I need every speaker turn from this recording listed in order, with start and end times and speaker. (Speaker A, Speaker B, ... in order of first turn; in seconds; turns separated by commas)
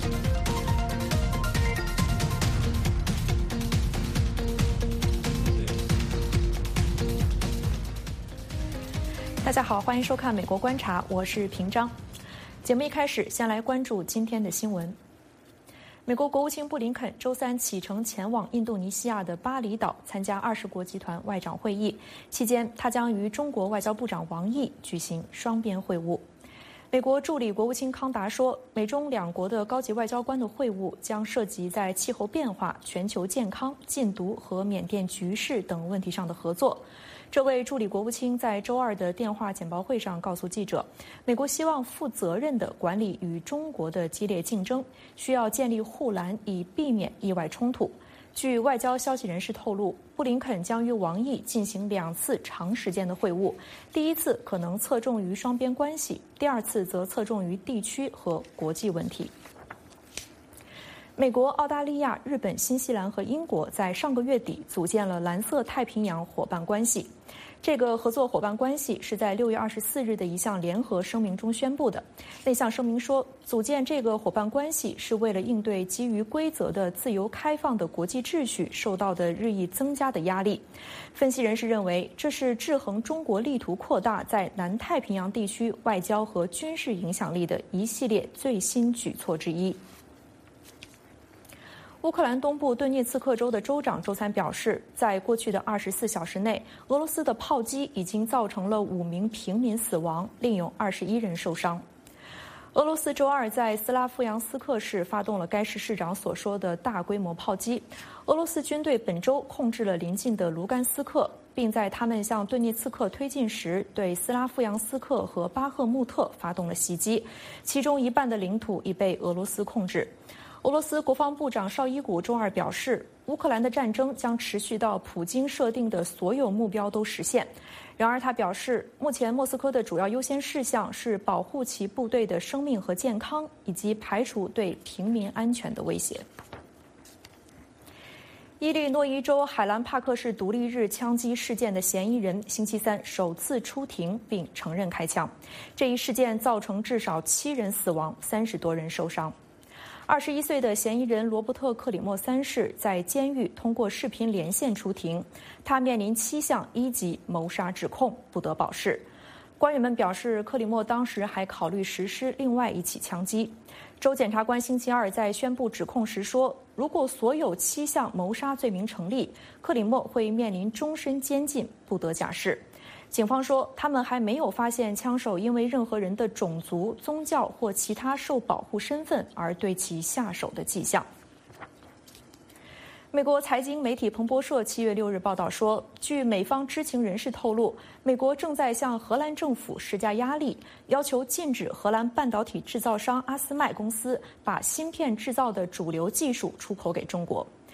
Speaker A: 9.4-11.9, Speaker A: 12.6-15.0, Speaker A: 16.1-26.3, Speaker A: 26.9-59.3, Speaker A: 61.2-89.8, Speaker A: 92.0-101.8, Speaker A: 102.7-136.3, Speaker A: 138.6-149.3, Speaker A: 150.1-159.1, Speaker A: 159.6-181.1, Speaker A: 183.1-197.5